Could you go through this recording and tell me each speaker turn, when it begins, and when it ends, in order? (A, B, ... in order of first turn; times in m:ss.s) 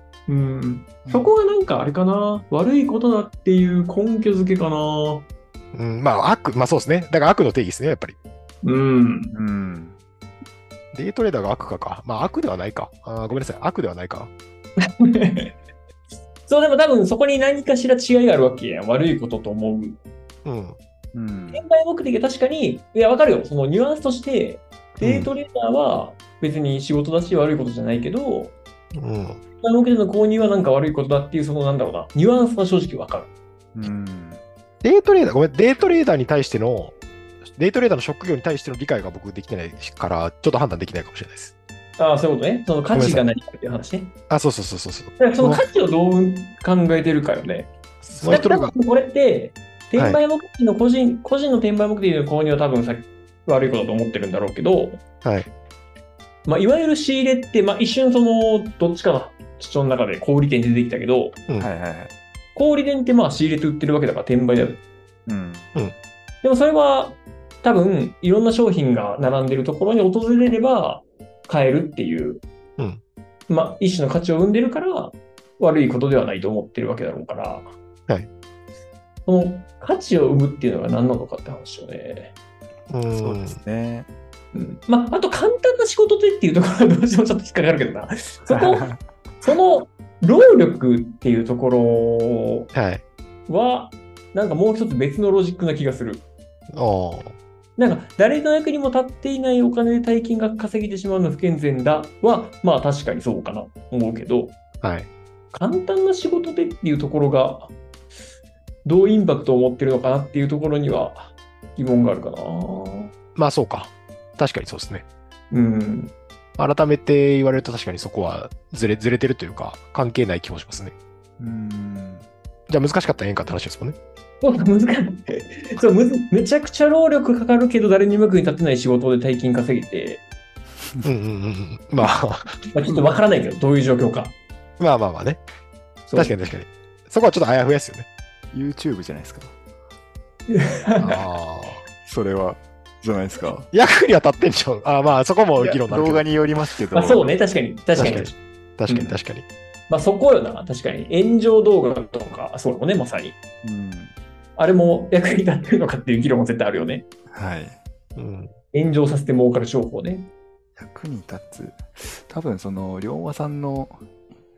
0:00.3-0:05.3 A
0:01.0-0:01.3 B
0:05.7-0:08.2 C
0:08.6-0:09.3 A
0:09.3-0:10.0 B
0:10.9-0:14.3 C
0:14.8-0:15.5 A
0:16.5-0:20.0 A
0:20.4-0:20.8 C
0:21.1-0:21.6 B
0:21.5-0:28.5 A
0:25.0-0:25.3 C
0:28.9-0:29.4 C
0:29.6-0:33.3 A
0:33.8-0:34.4 B
0:34.8-0:37.0 C
0:37.5-0:41.5 C
0:42.0-0:44.1 A
0:42.9-0:43.2 C
0:44.3-0:45.6 C
0:45.2-0:47.7 A
0:48.0-0:48.8 C
0:48.2-0:55.0 A
0:55.2-0:55.5 C
0:56.5-1:01.4 A
1:01.6-1:02.1 B
1:02.6-1:04.8 A
1:05.3-1:05.7 B
1:06.4-1:12.4 A
1:13.5-1:17.7 A
1:19.3-1:22.3 A
1:22.9-1:23.6 C
1:23.1-1:24.1 B
1:24.5-1:28.9 A
1:28.5-1:29.0 B
1:29.4-1:32.7 A
1:32.7-1:33.0 C
1:33.5-1:36.2 A
1:36.7-1:37.4 C
1:37.8-1:44.6 A
1:44.8-1:45.1 C
1:45.5-1:47.7 A
1:48.8-1:53.1 A
1:53.4-1:55.0 C
1:55.5-1:56.1 A
1:56.6-2:01.0 C
2:01.4-2:02.3 B
2:02.7-2:04.0 C
2:04.4-2:10.2 A
2:11.0-2:12.6 C
2:12.7-2:14.3 A
2:14.8-2:15.4 C
2:16.1-2:16.4 A
2:16.2-2:18.1 C
2:18.5-2:19.6 B
2:20.5-2:21.2 A
2:21.0-2:21.8 C
2:22.0-2:23.7 B
2:23.7-2:26.2 C
2:25.6-2:27.3 B
2:26.9-2:28.4 A
2:28.0-2:29.5 C
2:28.9-2:29.2 A
2:29.9-2:33.4 A
2:33.6-2:34.1 B
2:34.6-2:37.0 A
2:37.3-2:37.8 B
2:38.2-2:38.5 C
2:38.7-2:40.3 A
2:40.8-2:44.0 B